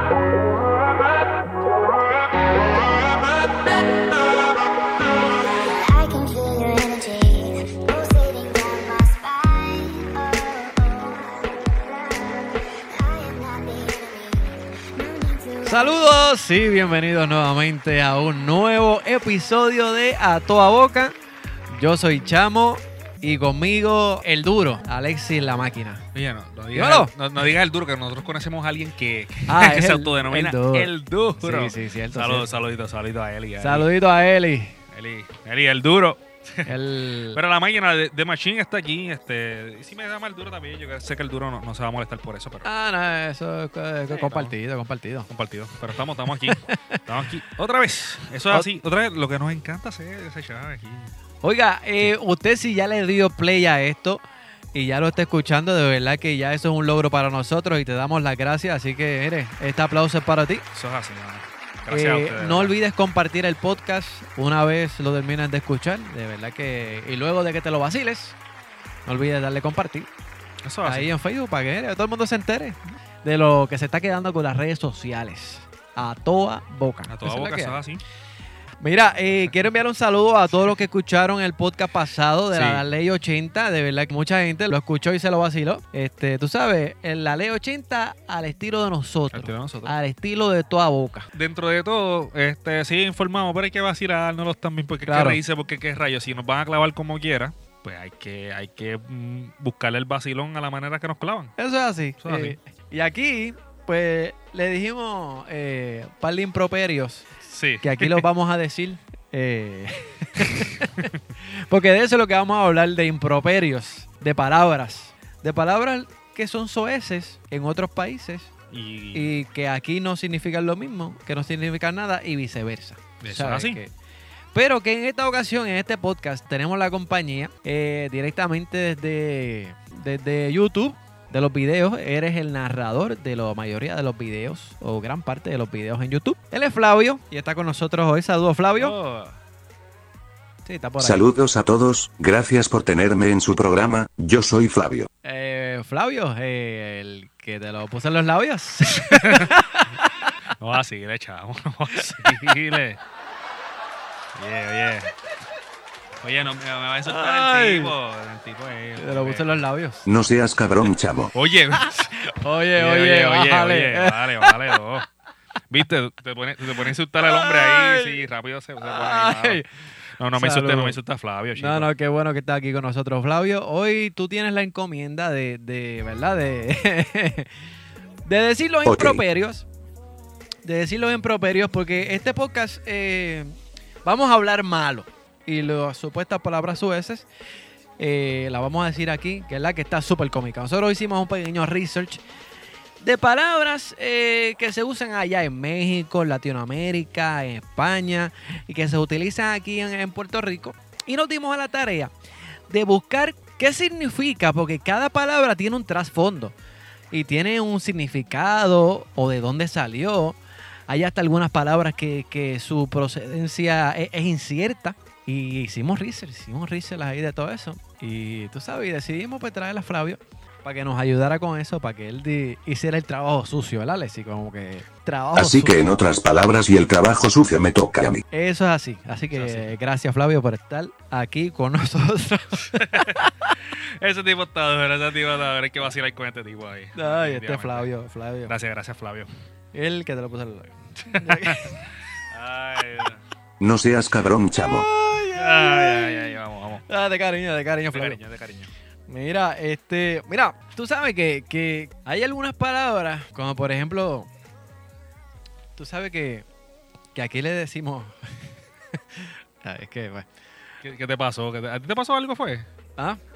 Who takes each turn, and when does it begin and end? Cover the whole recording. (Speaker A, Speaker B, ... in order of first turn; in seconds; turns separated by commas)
Speaker A: 2.7-3.1, Speaker A: 5.5-16.0, Speaker B: 15.6-21.1, Speaker B: 21.7-26.0, Speaker C: 26.1-33.9, Speaker B: 26.7-27.1, Speaker B: 29.5-30.9, Speaker B: 31.4-32.5, Speaker B: 33.6-34.8, Speaker C: 34.9-36.7, Speaker B: 36.6-37.4, Speaker C: 37.3-42.7, Speaker B: 42.6-45.3, Speaker C: 44.1-44.5, Speaker C: 45.3-51.1, Speaker B: 46.4-47.0, Speaker B: 51.4-54.2, Speaker B: 54.7-60.6, Speaker C: 60.7-62.7, Speaker B: 61.9-68.3, Speaker B: 69.1-70.1, Speaker C: 70.6-71.1, Speaker B: 70.8-77.8, Speaker C: 77.1-78.0, Speaker B: 78.8-91.3, Speaker C: 82.5-82.8, Speaker C: 89.3-89.9, Speaker C: 91.3-101.5, Speaker B: 95.0-95.4, Speaker B: 101.6-107.3, Speaker C: 102.2-102.6, Speaker C: 107.5-108.2, Speaker B: 107.8-118.5, Speaker C: 118.7-119.3, Speaker B: 119.1-123.9, Speaker C: 123.2-123.8, Speaker B: 124.5-138.9, Speaker C: 138.8-139.4, Speaker B: 140.6-141.2, Speaker D: 141.0-145.1, Speaker B: 145.2-150.0, Speaker C: 149.1-149.5, Speaker C: 150.6-153.0, Speaker B: 151.9-152.4, Speaker C: 154.3-155.1, Speaker C: 156.2-159.6, Speaker B: 157.1-157.9, Speaker B: 159.0-160.0, Speaker D: 160.1-161.3, Speaker C: 161.3-162.1, Speaker B: 161.8-164.8, Speaker C: 162.8-165.1, Speaker C: 165.7-169.6, Speaker B: 167.2-168.2, Speaker B: 168.8-169.7, Speaker C: 170.2-171.9, Speaker B: 170.3-171.0, Speaker B: 171.6-177.5, Speaker B: 178.2-179.7, Speaker D: 178.8-179.2, Speaker B: 180.6-187.2, Speaker B: 188.0-192.2, Speaker B: 193.0-202.1, Speaker B: 202.7-206.5, Speaker B: 207.1-225.7, Speaker D: 225.3-228.2, Speaker B: 228.3-233.3, Speaker C: 229.3-229.7, Speaker C: 232.7-237.9, Speaker B: 236.9-238.5, Speaker C: 238.5-239.3, Speaker B: 239.7-241.8, Speaker C: 241.1-241.7, Speaker C: 242.3-243.2, Speaker D: 243.6-244.8, Speaker B: 244.6-246.4, Speaker C: 245.3-246.8, Speaker B: 246.9-248.2, Speaker C: 247.9-248.7, Speaker B: 249.1-254.3, Speaker B: 255.8-256.4, Speaker B: 257.1-258.1, Speaker B: 259.1-260.2, Speaker C: 260.8-262.6